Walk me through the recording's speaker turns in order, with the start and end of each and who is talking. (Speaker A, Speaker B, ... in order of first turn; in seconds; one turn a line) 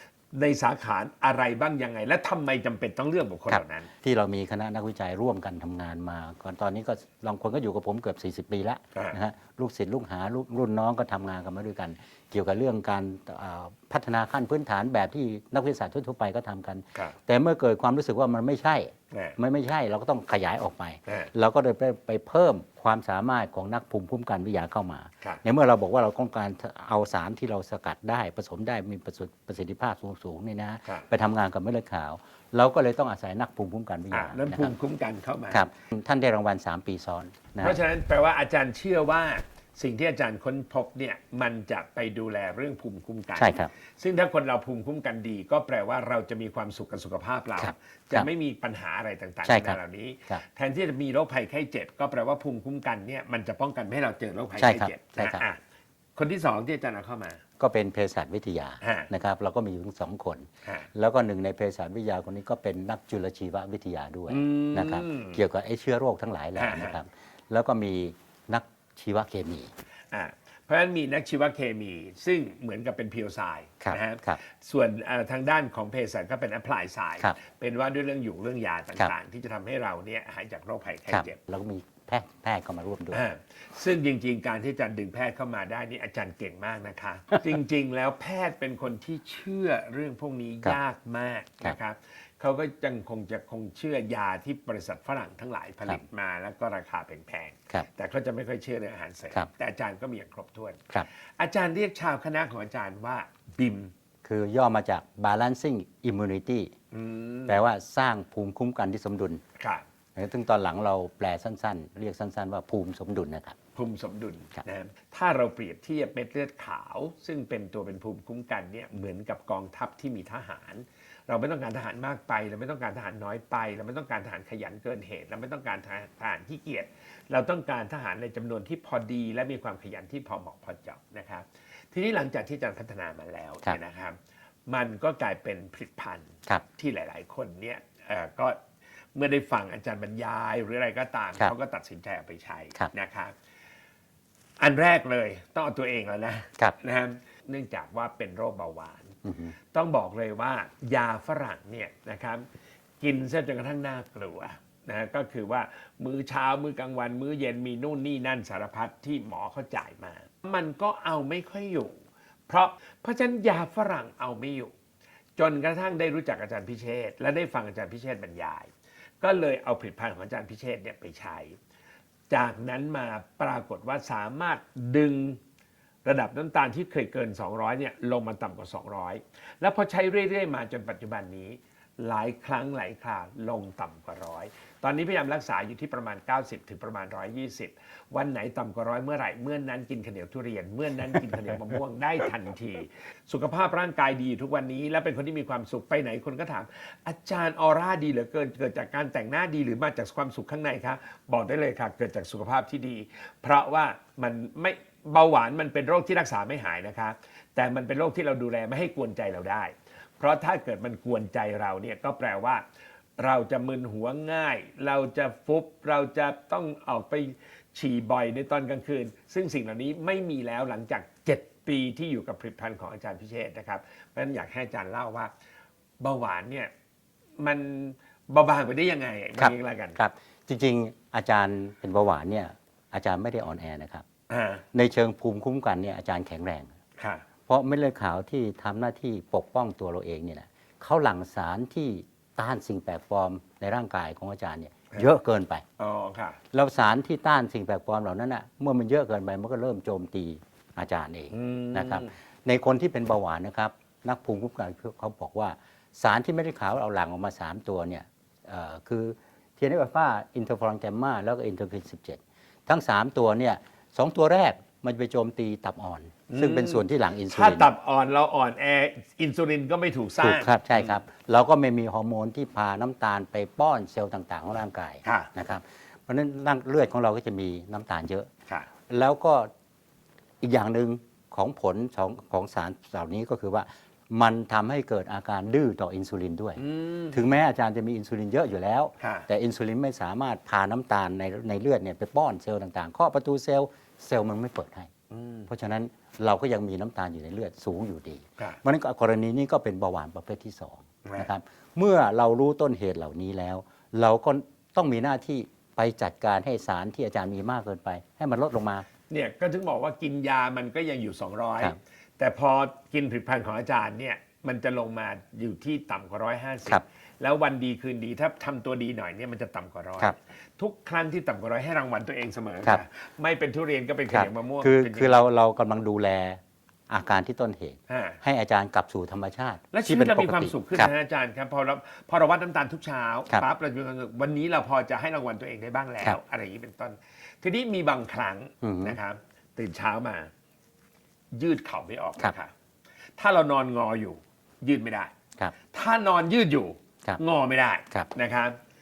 Speaker A: 0.3-3.9
Speaker B: 3.5-34.7
Speaker A: 34.1-35.6
Speaker B: 35.5-37.8
Speaker A: 37.6-55.6
Speaker B: 43.4-43.7
Speaker B: 47.6-48.3
Speaker B: 49.4-50.4
Speaker B: 54.6-55.4
Speaker A: 56.1-57.4
Speaker B: 57.6-69.7
Speaker A: 58.8-59.1
Speaker A: 64.3-65.4
Speaker A: 66.5-66.9
Speaker A: 70.1-81.4
Speaker B: 73.8-74.4
Speaker B: 81.1-83.2
Speaker A: 83.1-103.9
Speaker B: 104.2-106.7
Speaker A: 106.9-107.6
Speaker B: 107.5-109.4
Speaker A: 109.6-109.8
Speaker B: 110.2-113.5
Speaker A: 113.8-134.2
Speaker A: 134.7-138.6
Speaker A: 139.1-143.3
Speaker A: 144.6-149.2
Speaker B: 149.2-149.5
Speaker A: 149.7-152.4
Speaker A: 153.0-162.0
Speaker A: 162.5-164.7
Speaker A: 165.4-168.7
Speaker A: 169.2-171.6
Speaker A: 172.3-175.4
Speaker A: 176.0-212.6
Speaker A: 213.2-225.3
Speaker A: 226.0-226.7
Speaker A: 227.4-230.0
Speaker B: 229.4-234.0
Speaker A: 234.3-234.6
Speaker B: 234.7-236.7
Speaker A: 237.0-237.2
Speaker B: 237.5-245.6
Speaker A: 245.8-246.4
Speaker B: 246.5-267.7
Speaker A: 251.3-252.1
Speaker A: 266.3-270.9
Speaker B: 270.2-278.3
Speaker A: 275.0-275.3
Speaker B: 278.9-279.5
Speaker B: 280.4-294.9
Speaker A: 286.6-287.2
Speaker A: 289.0-289.2
Speaker A: 295.1-295.5
Speaker B: 295.5-308.9
Speaker A: 309.1-325.2
Speaker B: 324.1-330.9
Speaker A: 327.9-328.2
Speaker A: 329.7-340.3
Speaker B: 338.6-339.0
Speaker A: 341.3-342.5
Speaker A: 343.2-345.1
Speaker A: 345.6-348.6